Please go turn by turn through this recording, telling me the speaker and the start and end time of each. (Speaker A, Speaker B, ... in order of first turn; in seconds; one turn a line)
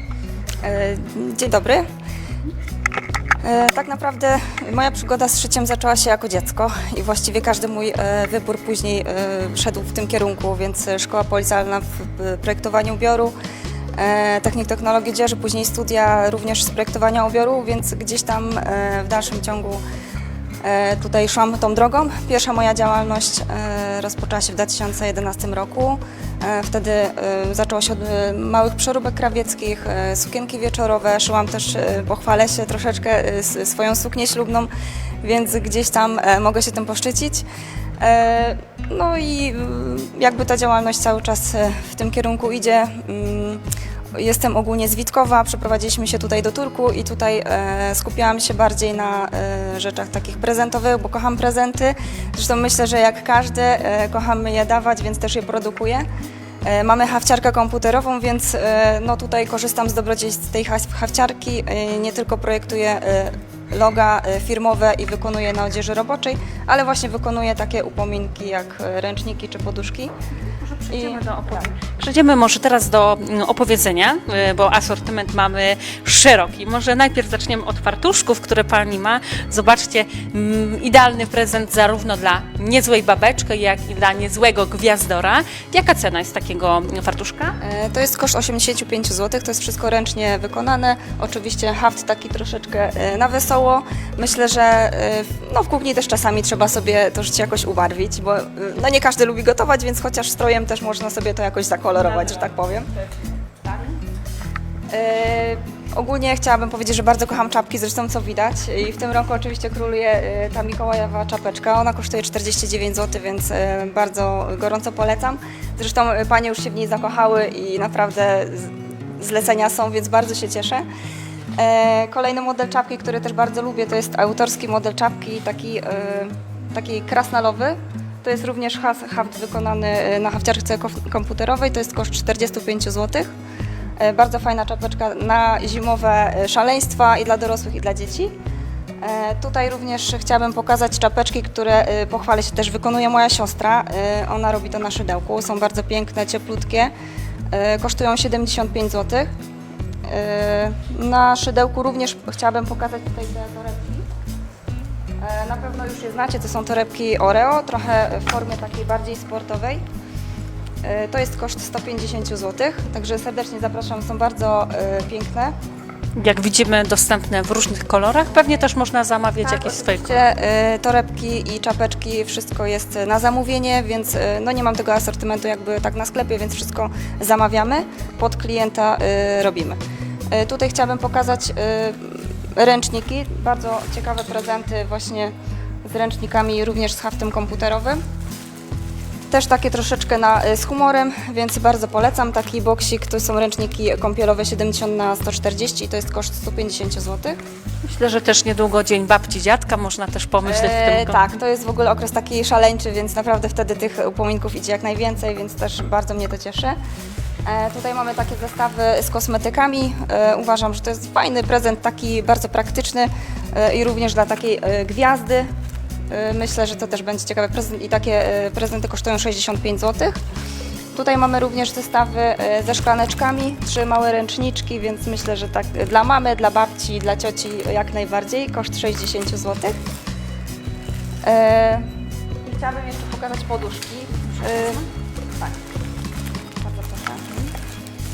Speaker A: 0.6-1.9
Speaker A: 3.4-13.3
Speaker A: 14.0-19.8
Speaker A: 20.6-34.7
Speaker A: 35.2-37.5
Speaker A: 38.0-43.6
Speaker A: 44.1-56.1
Speaker A: 56.6-70.1
Speaker B: 70.5-87.6
Speaker A: 70.9-71.7
Speaker A: 87.6-102.9
Speaker B: 103.1-103.6
Speaker A: 104.9-120.8
Speaker A: 121.6-133.3
Speaker A: 134.0-138.3
Speaker A: 139.0-146.9
Speaker A: 147.5-149.3
Speaker A: 150.1-154.1
Speaker A: 155.2-159.8
Speaker A: 160.8-165.5
Speaker B: 166.2-170.2
Speaker A: 169.4-179.8
Speaker A: 180.3-185.3
Speaker A: 185.8-188.0
Speaker A: 189.3-197.4
Speaker B: 197.8-201.3
Speaker A: 200.4-206.8
Speaker A: 207.5-215.5
Speaker A: 216.1-220.2
Speaker A: 220.9-229.7
Speaker A: 231.2-231.9
Speaker A: 232.4-234.8
Speaker A: 236.6-237.3